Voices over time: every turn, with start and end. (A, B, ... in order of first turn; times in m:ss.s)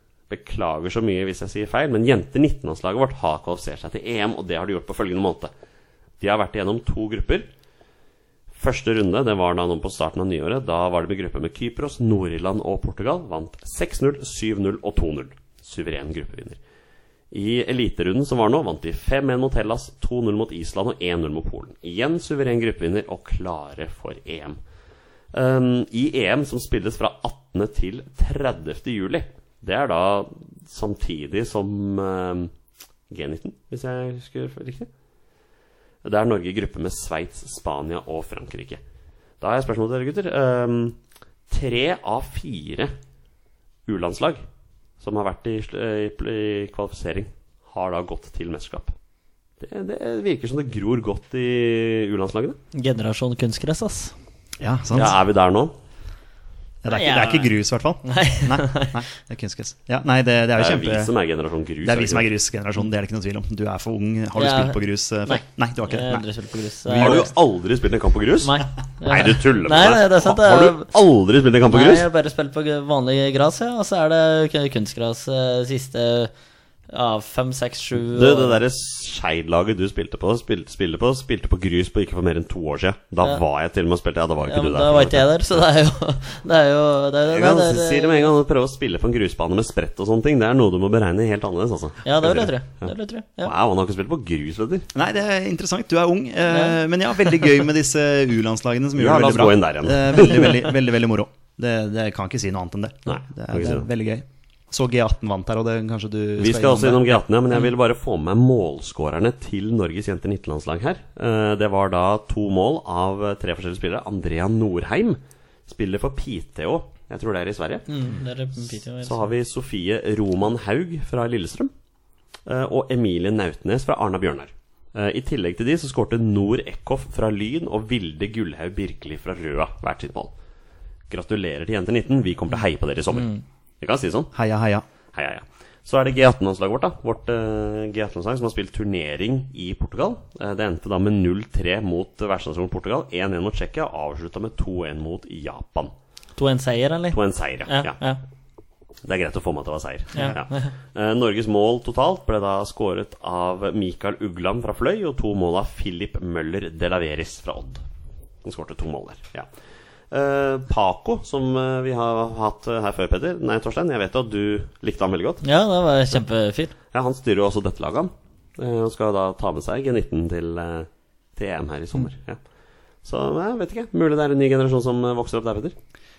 0:00.3-0:05.5 A
0:06.2-0:07.5 A
0:08.5-0:16.6 A
0:17.3-0:24.6 A
0:25.3-0:32.5 A
0:33.1-0:34.9 A
0:36.0-0:38.8 A
0:39.4-0:41.0 A
0:41.5-0:42.9 A
0:43.9-0:44.4 A
0:45.0-0:48.9 A
0:49.6-0:52.6 A
0:52.7-0:54.1 B
0:54.6-0:55.2 C
0:54.9-0:55.7 A
0:56.8-1:01.1 C
0:56.9-0:57.5 B
0:58.0-0:59.0 B
1:00.6-1:02.3 A
1:01.8-1:06.3 C
1:04.4-1:07.3 B
1:06.8-1:07.3 C
1:06.9-1:12.1 A
1:08.4-1:10.9 B
1:11.7-1:16.3 B
1:16.9-1:18.6 B
1:18.0-1:25.3 A
1:24.5-1:28.3 B
1:27.3-1:32.9 A
1:32.0-1:33.5 B
1:33.4-1:34.9 A
1:34.9-1:47.2 C
1:36.5-1:36.8 B
1:39.0-1:40.6 A
1:43.1-1:43.9 A
1:46.4-1:57.9 A
1:57.9-1:59.3 B
1:59.0-2:01.7 A
2:02.5-2:10.3 A
2:11.1-2:14.3 A
2:14.3-2:14.8 C
2:15.1-2:25.9 A
2:26.4-2:28.2 B
2:27.1-2:28.0 A
2:29.0-2:37.8 A
2:30.2-2:30.7 B
2:38.4-2:39.5 A
2:40.1-2:45.4 A
2:45.4-2:46.7 B
2:46.9-2:52.4 A
2:53.0-2:55.8 A